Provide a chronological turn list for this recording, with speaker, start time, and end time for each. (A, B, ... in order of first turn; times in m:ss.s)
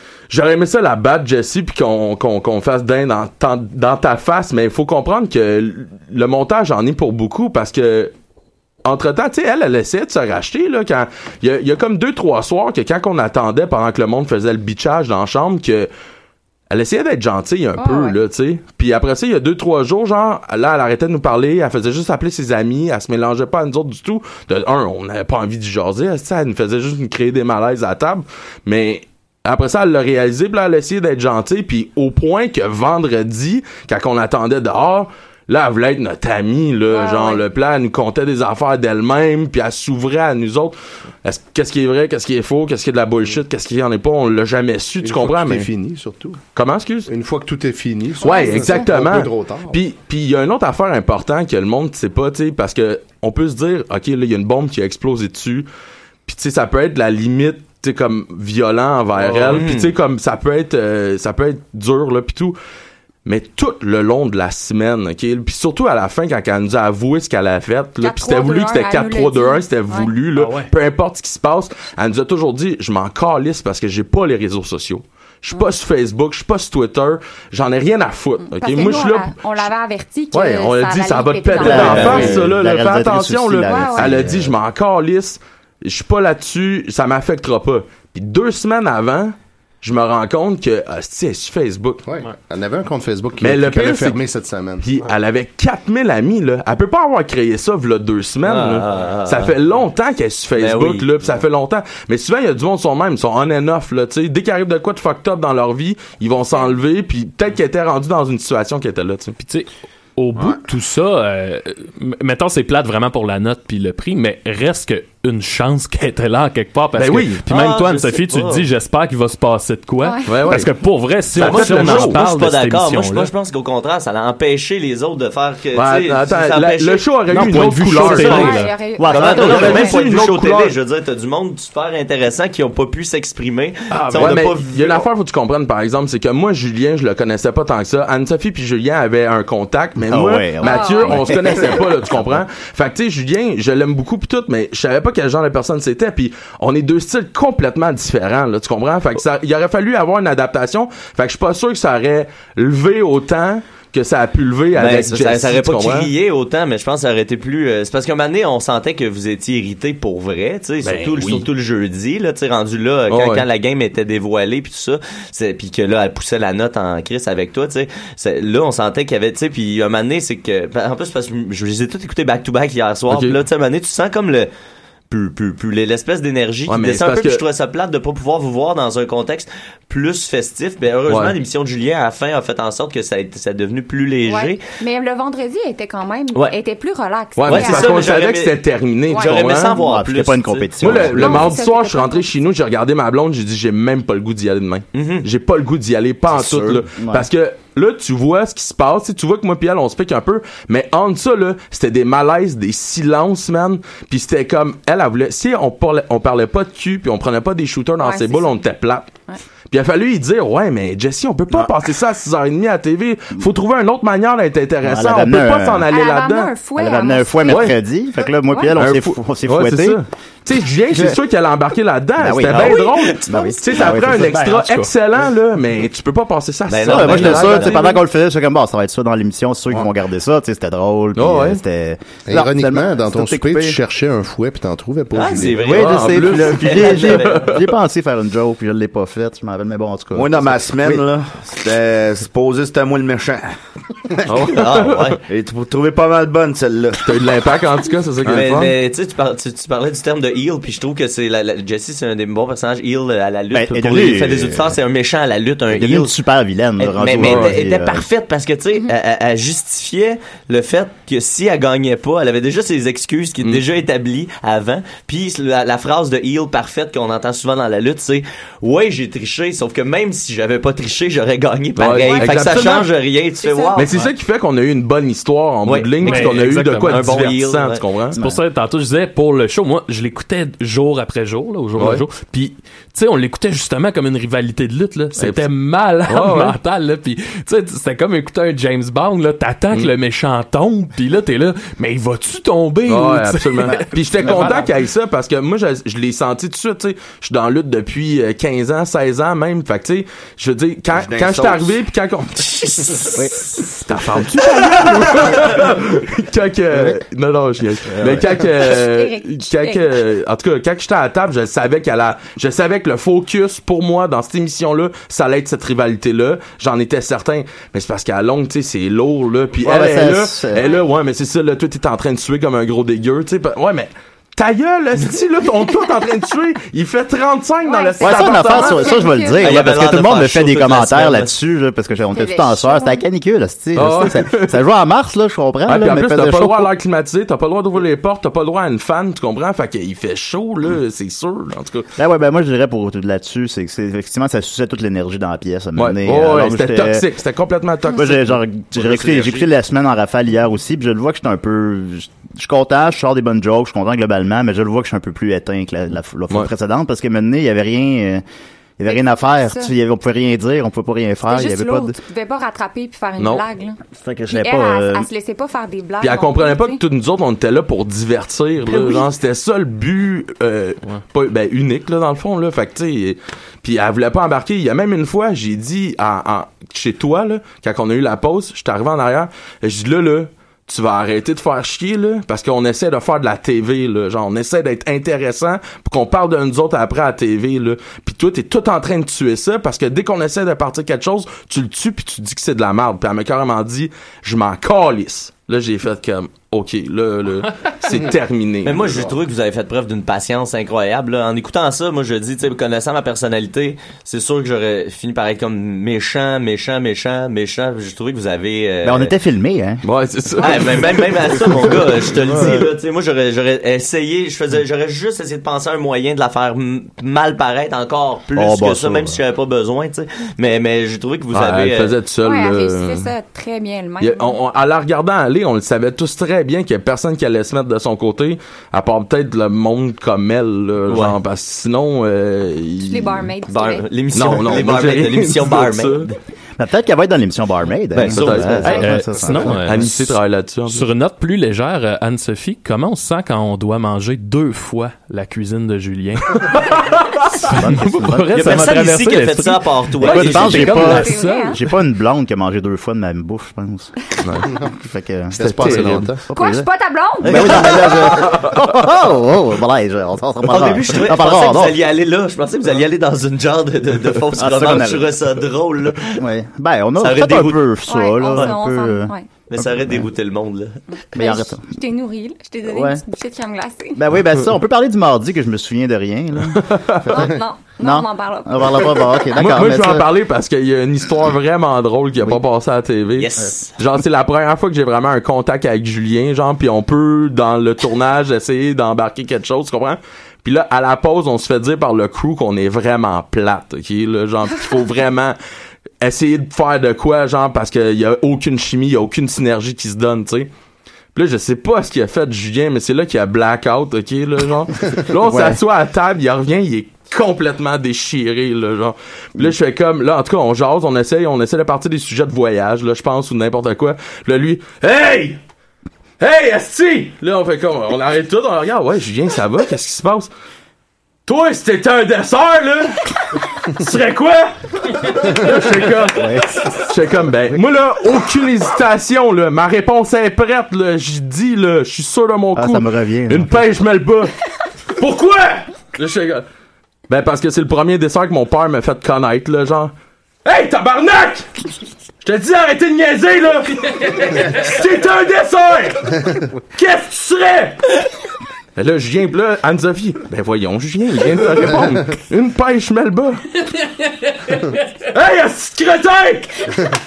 0:00.3-0:08.1 A
0:08.8-0:15.9 A
0:16.7-0:45.7 A
0:17.8-0:18.2 B
0:36.9-0:37.4 B
0:45.0-0:46.4 C
0:46.5-0:47.1 A
0:47.1-0:49.8 C
0:48.2-0:48.9 B
0:48.2-0:55.7 A
0:56.3-1:02.6 A
0:59.2-0:59.5 C
0:59.5-0:59.9 D
1:03.2-1:19.6 A
1:08.0-1:10.1 B
1:10.3-1:10.7 E
1:18.4-1:22.2 B
1:20.3-1:32.0 A
1:21.6-1:24.6 F
1:21.7-1:22.4 D
1:23.6-1:24.2 B
1:32.0-1:34.8 C
1:33.4-1:34.2 A
1:34.8-1:49.4 A
1:38.4-1:39.5 D
1:40.6-1:41.1 D
1:49.4-2:03.3 E
1:57.0-1:57.4 A
1:57.5-1:58.6 D
2:00.0-2:00.3 B
2:00.2-2:00.7 A
2:01.3-2:02.2 A
2:01.3-2:07.0 D
2:05.7-2:08.6 A
2:07.3-2:08.8 E
2:08.0-2:08.5 D
2:08.2-2:09.9 B
2:09.0-2:09.8 F
2:09.1-2:15.0 D
2:09.3-2:10.8 A
2:13.9-2:14.4 E
2:14.1-2:36.1 A
2:20.0-2:22.4 F
2:20.6-2:21.6 B
2:34.8-2:54.5 D
2:40.8-2:41.5 A
2:43.1-2:43.4 A
2:53.1-2:53.4 A
2:55.1-3:04.6 D
2:56.7-2:57.4 A
3:01.1-3:01.3 A
3:04.2-3:08.0 B
3:07.4-3:09.8 A
3:07.4-3:08.6 D
3:09.1-3:11.4 D
3:09.6-3:11.5 F
3:10.8-3:29.1 A
3:11.2-3:12.3 B
3:14.9-3:15.2 D
3:16.3-3:17.3 F
3:28.0-3:28.6 B
3:29.7-3:36.5 A
3:34.8-3:35.8 F
3:35.9-3:37.7 B
3:36.8-3:40.0 F
3:37.5-3:37.7 A
3:38.7-3:47.8 A
3:40.9-3:41.2 F
3:42.2-3:44.5 F
3:42.5-3:43.5 D
3:44.2-3:44.9 E
3:46.7-3:47.8 D
3:46.8-3:53.8 F
3:51.2-3:51.6 A
3:52.2-3:55.6 C
3:55.1-3:57.5 D
3:55.4-4:01.0 F
3:55.7-3:57.6 A
4:00.1-4:03.5 G
4:04.3-4:05.1 A
4:04.4-4:05.2 D
4:05.3-4:07.0 G
4:07.0-4:08.8 A
4:08.3-4:16.1 D
4:13.5-4:14.8 F
4:15.7-4:18.0 F
4:16.8-4:34.1 D
4:17.2-4:17.5 A
4:31.8-4:32.9 A
4:31.9-4:32.6 B
4:33.4-4:33.9 B
4:33.8-4:38.2 A
4:35.6-4:37.8 D
4:36.0-4:37.3 E
4:38.2-4:54.7 E
4:41.8-4:42.1 A
4:45.2-4:45.5 A
4:46.0-4:46.6 A
4:52.9-5:03.0 A
5:00.9-5:01.8 G
5:02.8-5:03.1 D
5:03.8-5:29.0 A
5:07.9-5:08.4 F
5:08.6-5:10.0 B
5:19.6-5:20.6 F
5:27.6-5:29.6 B
5:28.0-5:36.7 F
5:29.4-5:31.3 D
5:32.1-5:33.0 B
5:33.7-5:34.6 A
5:35.7-5:41.9 A
5:42.0-5:47.0 F
5:45.8-5:48.4 A
5:47.9-5:58.2 F
5:58.8-6:02.0 F
5:58.9-5:59.7 B
6:01.3-6:03.8 B
6:03.2-6:03.4 A
6:04.0-6:05.1 F
6:04.3-6:06.8 B
6:06.0-6:39.1 A
6:38.6-6:49.1 D
6:48.8-6:49.8 F
6:49.8-6:51.4 A
6:50.4-7:01.9 D
6:52.3-6:52.6 F
6:58.3-6:59.2 F
7:01.3-7:03.1 A
7:02.2-7:04.4 B
7:04.0-7:13.3 A
7:10.9-7:11.2 D
7:12.8-7:13.9 B
7:13.5-7:16.2 D
7:14.1-7:16.1 A
7:16.6-7:19.9 F
7:17.9-7:18.9 D
7:18.0-7:20.9 A
7:18.7-7:20.2 E
7:20.7-7:31.6 E
7:27.5-7:28.6 F
7:28.3-7:31.0 D
7:30.0-7:33.9 F
7:30.9-7:31.6 B
7:34.2-7:34.5 A
7:34.7-7:36.7 F
7:35.3-7:36.2 C
7:35.4-7:36.1 A
7:36.3-7:38.0 B
7:37.2-7:41.8 F
7:37.2-7:38.1 D
7:40.5-7:46.2 D
7:44.4-7:45.1 F
7:46.1-7:50.0 F
7:47.0-7:47.7 D
7:47.8-7:49.3 B
7:49.5-7:50.8 D
7:51.0-7:54.0 B
7:51.1-7:51.6 F
7:52.7-7:53.0 F
7:54.0-7:56.6 F
7:56.5-7:57.2 A
7:57.1-7:59.0 B
7:57.8-8:00.1 F
7:59.3-8:15.4 A
8:03.2-8:03.7 D
8:16.0-8:20.5 A
8:21.1-8:35.4 A
8:25.1-8:25.6 F
8:36.2-8:40.3 A
8:41.3-8:43.0 A
8:43.6-8:44.5 A
8:45.1-8:54.3 A
8:46.1-8:46.7 F
8:52.6-8:53.6 F
8:54.9-8:56.4 A
8:57.1-8:59.9 A
9:00.4-9:01.5 A
9:02.2-9:07.8 A
9:08.8-9:13.4 A
9:15.1-9:16.6 A